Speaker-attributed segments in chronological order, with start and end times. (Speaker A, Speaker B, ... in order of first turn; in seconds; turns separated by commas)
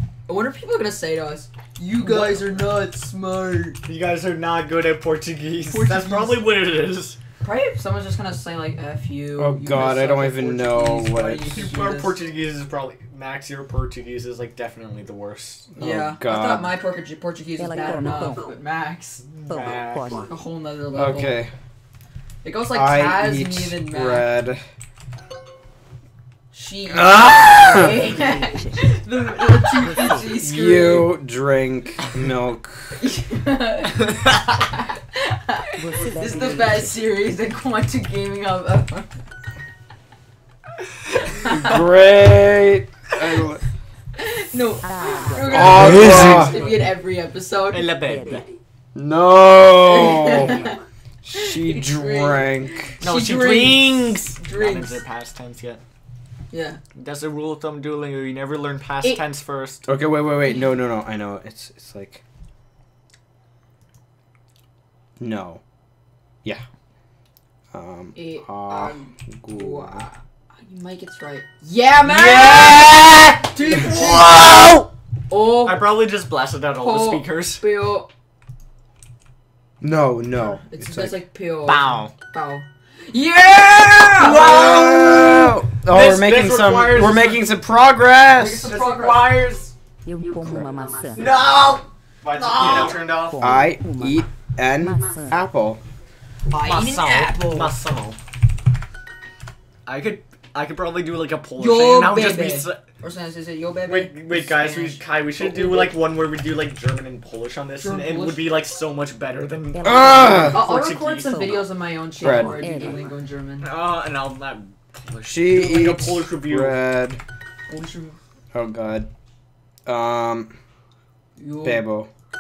Speaker A: 0.3-3.8, Speaker B: 2.0-2.4, Speaker B: 3.9-7.2, Speaker A: 5.7-6.5, Speaker A: 7.4-12.2, Speaker C: 9.4-11.7, Speaker B: 11.4-15.7, Speaker C: 15.7-16.7, Speaker A: 15.8-19.2, Speaker D: 17.6-18.4, Speaker B: 19.2-20.3, Speaker D: 19.5-20.3, Speaker A: 20.3-21.4, Speaker C: 20.9-21.5, Speaker A: 22.4-24.3, Speaker C: 22.7-24.6, Speaker A: 26.5-31.2, Speaker C: 26.9-27.9, Speaker D: 28.0-28.8, Speaker D: 29.8-30.4, Speaker C: 30.4-33.0, Speaker A: 33.0-39.1, Speaker D: 35.8-37.0, Speaker C: 41.5-43.6, Speaker A: 44.2-48.0, Speaker D: 44.9-46.7, Speaker C: 45.5-46.6, Speaker B: 45.8-46.5, Speaker B: 47.7-48.5, Speaker D: 48.0-48.5, Speaker C: 49.0-52.9, Speaker A: 49.8-50.8, Speaker A: 51.4-55.0, Speaker B: 53.0-55.8, Speaker A: 56.5-56.8, Speaker B: 57.0-59.9, Speaker C: 59.9-62.2, Speaker A: 60.4-60.7, Speaker C: 65.2-65.6, Speaker C: 67.7-70.0, Speaker A: 68.2-74.6, Speaker B: 72.0-74.9, Speaker A: 75.3-75.9, Speaker B: 75.6-77.6, Speaker A: 76.8-78.1, Speaker C: 79.8-81.2, Speaker A: 80.3-84.5, Speaker B: 81.7-82.1, Speaker B: 84.2-87.5, Speaker C: 84.4-88.7, Speaker A: 88.4-89.3, Speaker B: 88.6-89.7, Speaker D: 90.0-91.3, Speaker B: 91.2-93.4, Speaker A: 92.3-93.0, Speaker D: 93.2-94.2, Speaker C: 93.4-95.8, Speaker D: 94.8-95.4, Speaker A: 96.5-97.8, Speaker B: 96.5-98.2, Speaker B: 99.9-102.8, Speaker A: 101.6-105.9, Speaker B: 103.9-111.7, Speaker A: 107.8-108.5, Speaker D: 109.7-110.6, Speaker C: 109.8-110.7, Speaker A: 110.5-113.7, Speaker D: 111.3-111.5, Speaker C: 112.2-112.6, Speaker D: 112.2-113.0, Speaker B: 113.6-116.8, Speaker C: 115.2-117.2, Speaker A: 117.7-118.2, Speaker C: 118.5-119.1, Speaker C: 119.9-120.5, Speaker A: 121.4-121.9, Speaker C: 121.6-122.1